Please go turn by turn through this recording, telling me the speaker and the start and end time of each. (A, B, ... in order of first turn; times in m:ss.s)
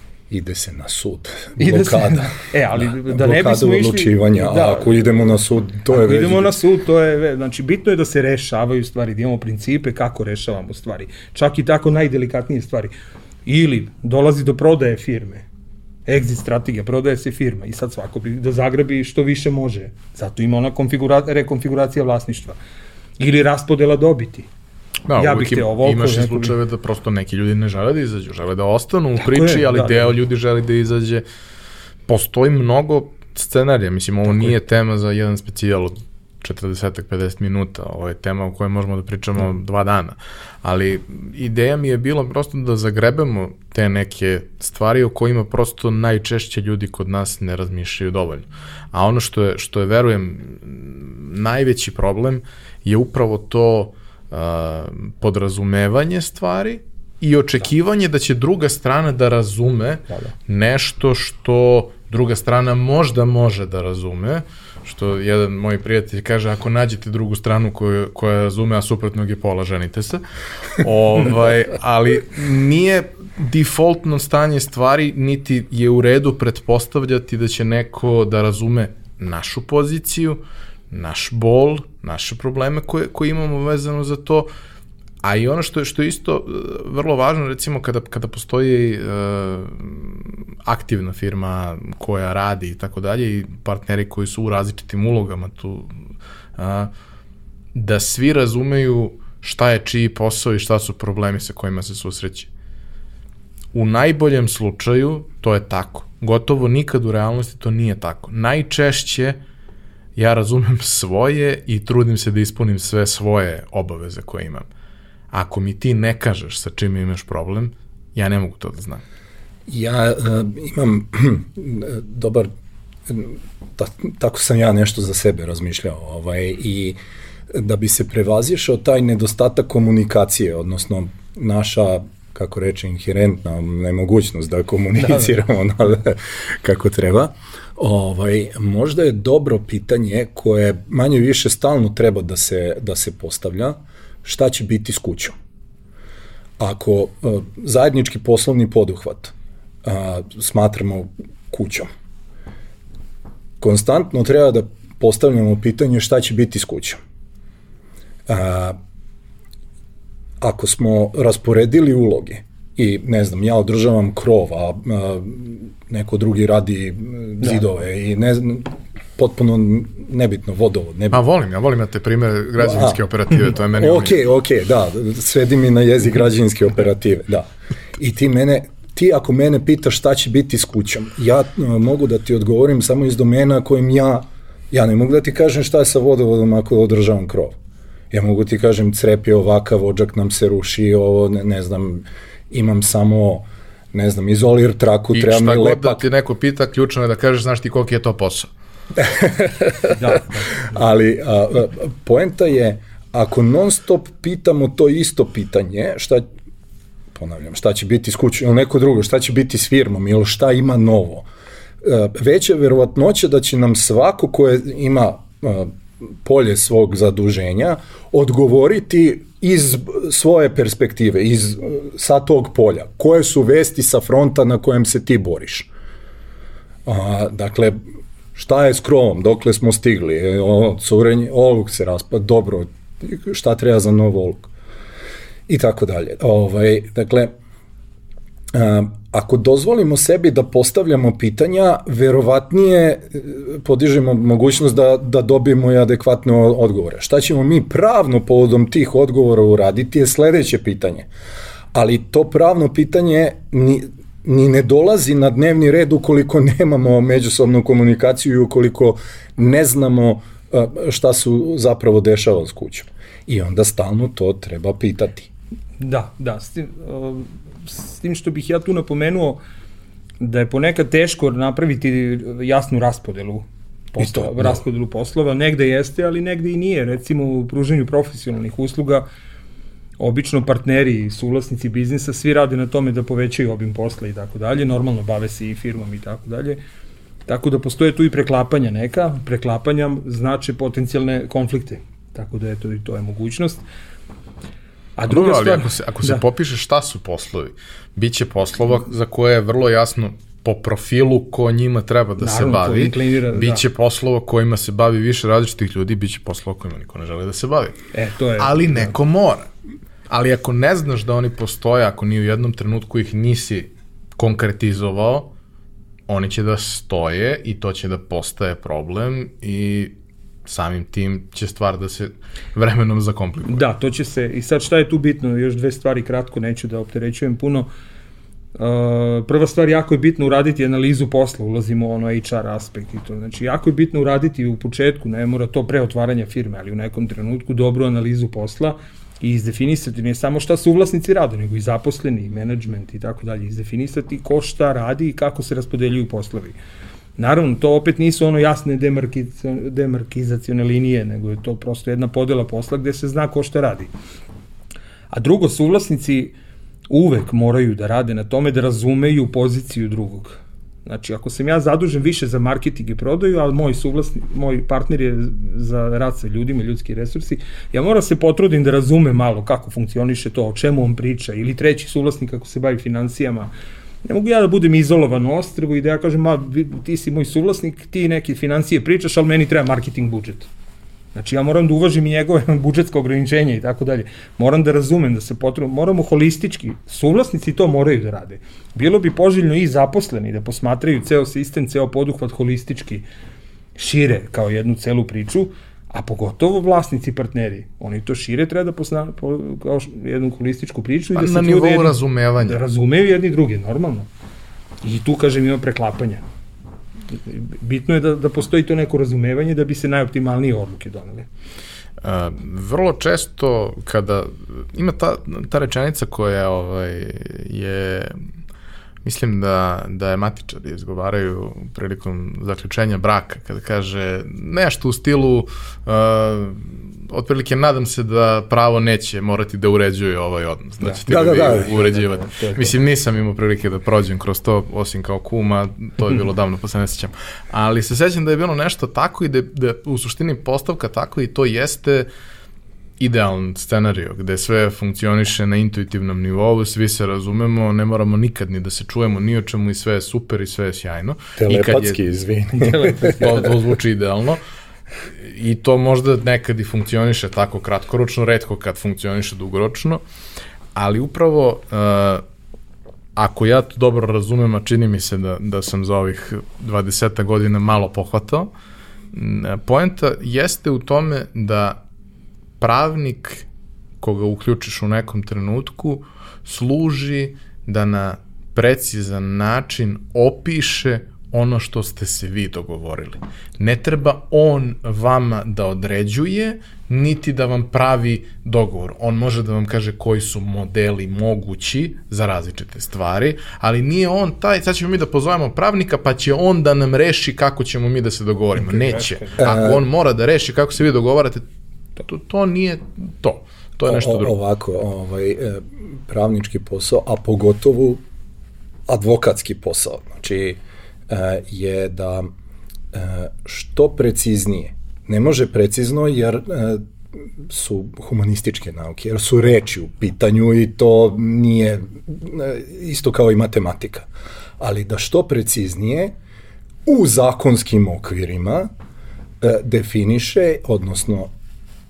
0:00.3-0:06.5 A
0:01.6-0:05.4 B
0:05.9-0:12.9 B
0:13.5-0:15.5 B
0:16.1-0:22.6 B
0:23.2-0:24.5 B
0:25.1-0:31.2 C
0:25.2-0:26.6 B
0:29.2-0:30.1 B
0:32.1-1:10.2 C
1:10.8-1:24.5 C
1:25.2-1:35.9 C
1:36.6-1:36.9 C
1:37.7-1:42.5 C
1:43.7-1:49.4 C
1:50.2-1:54.7 C
1:55.3-1:59.0 C
1:59.7-2:02.5 A
2:03.1-2:07.0 A
2:07.5-2:25.4 A
2:15.0-2:15.4 B
2:26.6-2:31.9 A
2:33.6-2:37.0 A
2:38.3-2:38.8 A
2:40.4-2:51.2 A
2:51.1-2:54.2 C
2:52.6-2:53.0 A
2:53.7-3:07.6 A
3:08.1-3:16.0 A
3:15.1-3:18.5 C
3:19.0-3:20.2 A
3:19.9-3:20.7 B
3:20.7-3:26.3 A
3:27.1-3:31.3 A
3:31.8-3:45.7 A
3:46.8-3:47.8 A
3:48.4-3:54.5 A
3:55.5-3:57.3 A
3:58.5-4:11.1 A
4:11.7-4:25.3 A
4:25.8-4:29.4 B
4:30.2-4:39.1 B
4:34.0-4:34.6 A
4:40.0-4:46.6 B
4:47.3-4:53.6 B
4:55.0-4:56.2 B
4:55.1-5:07.8 C
5:02.2-5:03.6 B
5:07.9-5:09.0 B
5:08.4-5:09.5 C
5:10.1-5:15.3 C
5:16.1-5:19.9 C
5:20.5-5:23.6 C
5:23.4-5:27.7 B
5:28.6-5:46.6 B
5:47.2-5:53.9 B
5:55.1-5:56.3 B
5:56.9-6:13.5 B
6:14.0-6:20.5 B
6:21.2-6:33.0 B
6:33.8-6:44.1 B
6:41.2-6:42.6 C
6:44.8-6:46.2 B
6:47.3-6:51.3 B
6:52.0-6:58.1 C
6:59.0-7:22.1 C
7:10.8-7:12.8 B
7:11.1-7:11.7 A
7:23.0-7:32.0 C
7:31.4-7:33.5 A
7:32.6-7:33.5 B
7:33.2-7:34.4 C
7:35.2-7:40.0 C
7:40.8-7:42.2 C
7:43.2-7:48.5 C
7:49.1-7:51.8 C
7:52.6-7:53.5 C
7:54.0-8:21.4 C
8:18.6-8:19.4 B
8:19.4-8:19.8 A
8:22.0-8:24.3 C
8:23.8-8:28.0 A
8:28.9-8:32.3 A
8:32.9-8:44.1 A
8:44.6-8:46.1 A
8:46.9-8:48.7 A
8:49.4-8:51.3 A